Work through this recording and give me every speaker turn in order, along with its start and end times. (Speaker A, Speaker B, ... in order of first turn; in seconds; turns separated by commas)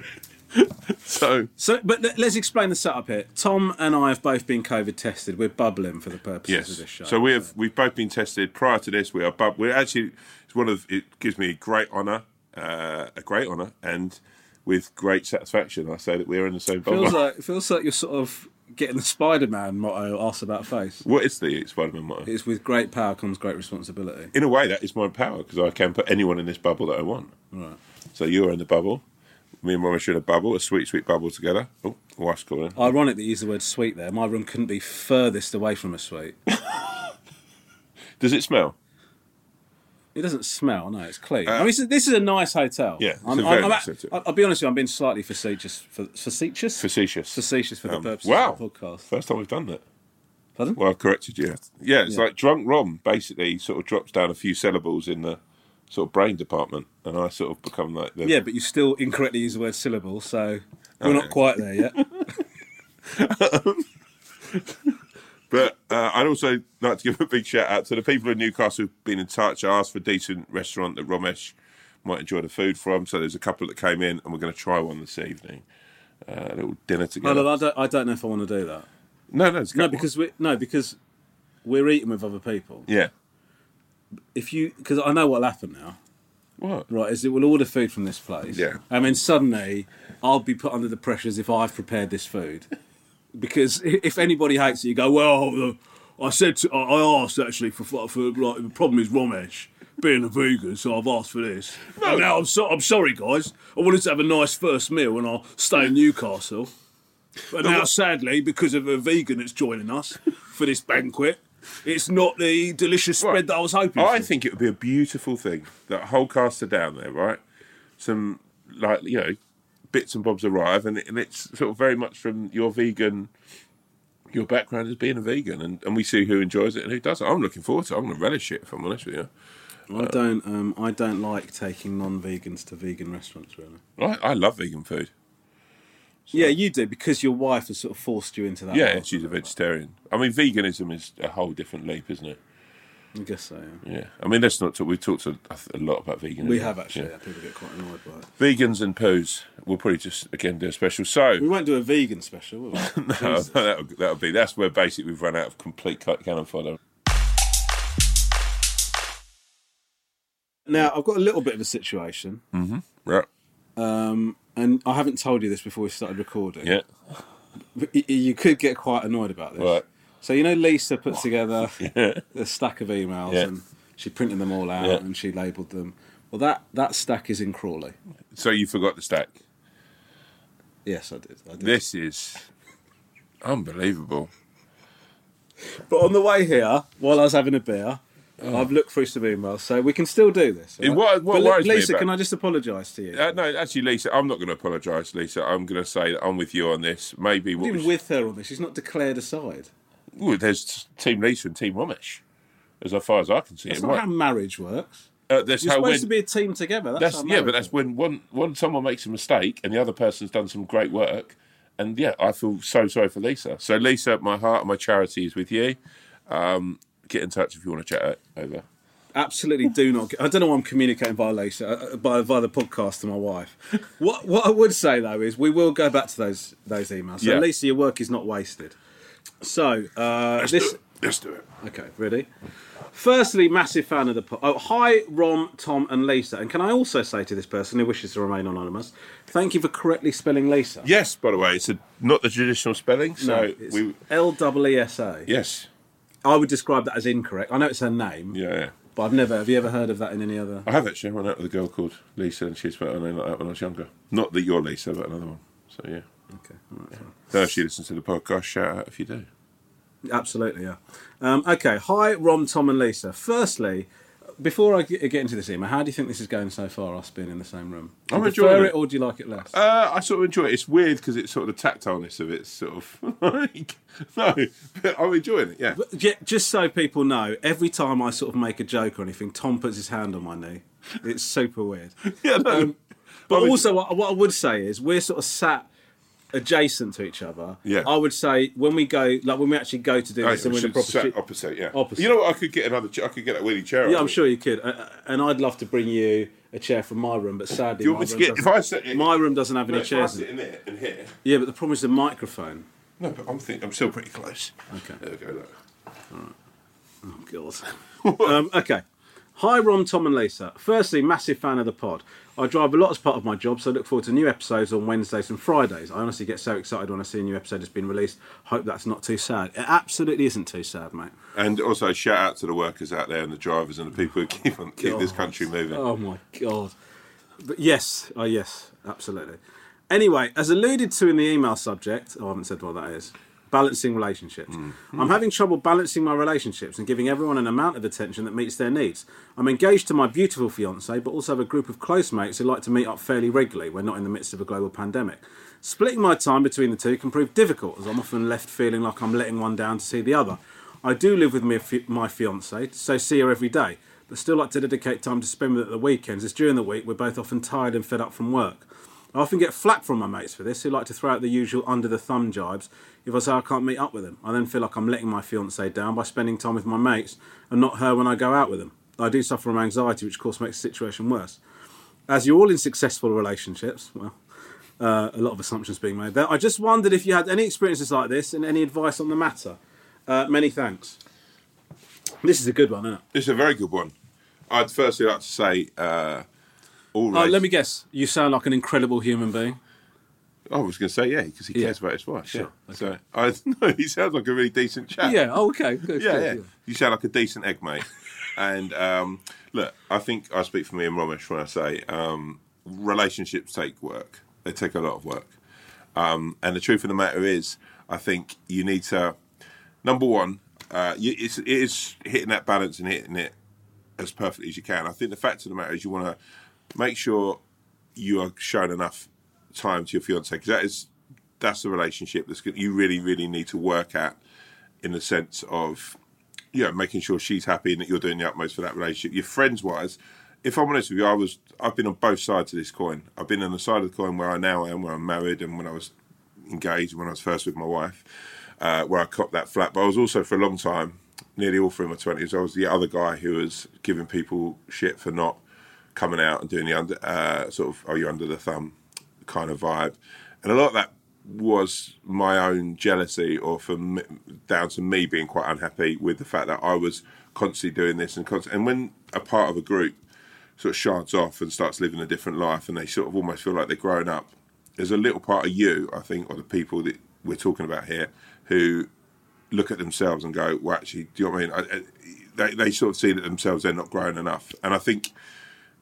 Speaker A: 0.5-1.5, Speaker B: 1.6-7.5, Speaker A: 6.5-17.2, Speaker B: 16.9-21.0, Speaker A: 21.0-22.3, Speaker B: 22.3-24.3, Speaker A: 24.3-27.3, Speaker B: 27.5-27.8, Speaker A: 28.1-29.0, Speaker A: 29.6-32.9, Speaker B: 32.8-36.4, Speaker A: 38.2-38.8, Speaker B: 40.1-49.1, Speaker A: 43.0-44.1, Speaker A: 46.8-49.8, Speaker A: 50.8-58.4, Speaker B: 58.2-62.0, Speaker A: 61.0-62.2, Speaker A: 63.0-63.9, Speaker A: 64.4-65.0, Speaker A: 65.5-75.7, Speaker A: 76.2-77.5, Speaker B: 77.2-78.9, Speaker A: 79.3-80.1, Speaker B: 79.7-81.0, Speaker B: 81.7-82.9, Speaker B: 84.3-86.0, Speaker A: 86.6-86.9, Speaker B: 86.9-92.7, Speaker A: 88.5-88.8, Speaker B: 93.4-106.7, Speaker A: 102.0-102.3, Speaker B: 107.5-114.3, Speaker A: 107.6-107.9, Speaker A: 114.0-117.4, Speaker A: 118.0-119.4, Speaker A: 119.9-123.3, Speaker A: 124.3-129.3, Speaker B: 129.9-133.8, Speaker A: 134.0-135.1, Speaker A: 136.3-136.6, Speaker B: 136.3-139.5, Speaker A: 138.7-142.4, Speaker B: 143.2-143.8, Speaker A: 143.8-147.1, Speaker B: 146.4-148.3, Speaker A: 148.4-151.5, Speaker B: 151.4-153.6, Speaker A: 152.7-156.8, Speaker B: 160.7-162.4, Speaker A: 162.5-163.3, Speaker B: 163.8-166.8, Speaker B: 167.8-178.0, Speaker A: 169.6-169.8, Speaker A: 171.8-172.2, Speaker A: 178.3-179.4, Speaker B: 180.8-181.8, Speaker A: 181.6-182.5, Speaker A: 183.4-184.3, Speaker B: 185.6-193.4, Speaker A: 190.8-192.1, Speaker A: 193.1-197.9, Speaker B: 197.6-199.7, Speaker A: 200.2-202.2, Speaker A: 202.8-204.0, Speaker B: 203.7-205.1, Speaker A: 205.3-206.1, Speaker B: 205.6-207.7, Speaker A: 207.0-218.7, Speaker B: 219.1-228.8, Speaker A: 227.2-227.5, Speaker B: 229.4-230.8, Speaker A: 230.4-231.5, Speaker B: 231.6-232.3, Speaker B: 232.9-240.9, Speaker A: 240.8-244.0, Speaker B: 243.2-245.3, Speaker A: 245.3-245.7, Speaker B: 246.2-248.4, Speaker A: 248.3-248.8, Speaker B: 248.9-250.7, Speaker A: 250.7-256.1, Speaker B: 256.3-257.2, Speaker A: 257.3-259.3, Speaker B: 260.1-263.9, Speaker B: 264.4-269.5, Speaker A: 268.1-268.8, Speaker A: 269.5-275.8, Speaker B: 275.7-282.8, Speaker A: 282.1-282.7, Speaker A: 283.3-283.7, Speaker B: 283.3-285.7, Speaker B: 286.3-291.1, Speaker A: 287.6-287.9, Speaker A: 290.2-294.2, Speaker B: 291.7-292.1, Speaker B: 293.8-300.3, Speaker A: 297.8-299.1, Speaker A: 299.7-301.1, Speaker B: 301.2-302.6, Speaker A: 303.0-305.5, Speaker B: 304.7-305.0, Speaker B: 307.0-308.8, Speaker A: 308.1-308.3, Speaker B: 309.4-321.1, Speaker A: 321.3-325.8, Speaker B: 324.8-326.7, Speaker B: 327.4-329.4, Speaker B: 329.9-371.4, Speaker B: 372.1-374.2, Speaker B: 374.8-381.0, Speaker B: 382.2-383.0, Speaker A: 383.1-383.9, Speaker A: 384.5-386.3, Speaker A: 386.9-387.4, Speaker B: 387.1-389.6, Speaker A: 390.5-395.2, Speaker B: 392.3-392.9, Speaker B: 395.0-396.5, Speaker A: 395.9-405.3, Speaker A: 405.9-409.2, Speaker A: 409.8-413.3, Speaker A: 414.0-416.2, Speaker A: 416.7-417.4, Speaker A: 418.0-424.2, Speaker A: 424.8-426.0, Speaker A: 426.5-438.1, Speaker A: 438.6-445.4, Speaker A: 445.9-460.0, Speaker A: 460.6-468.9, Speaker A: 469.5-475.1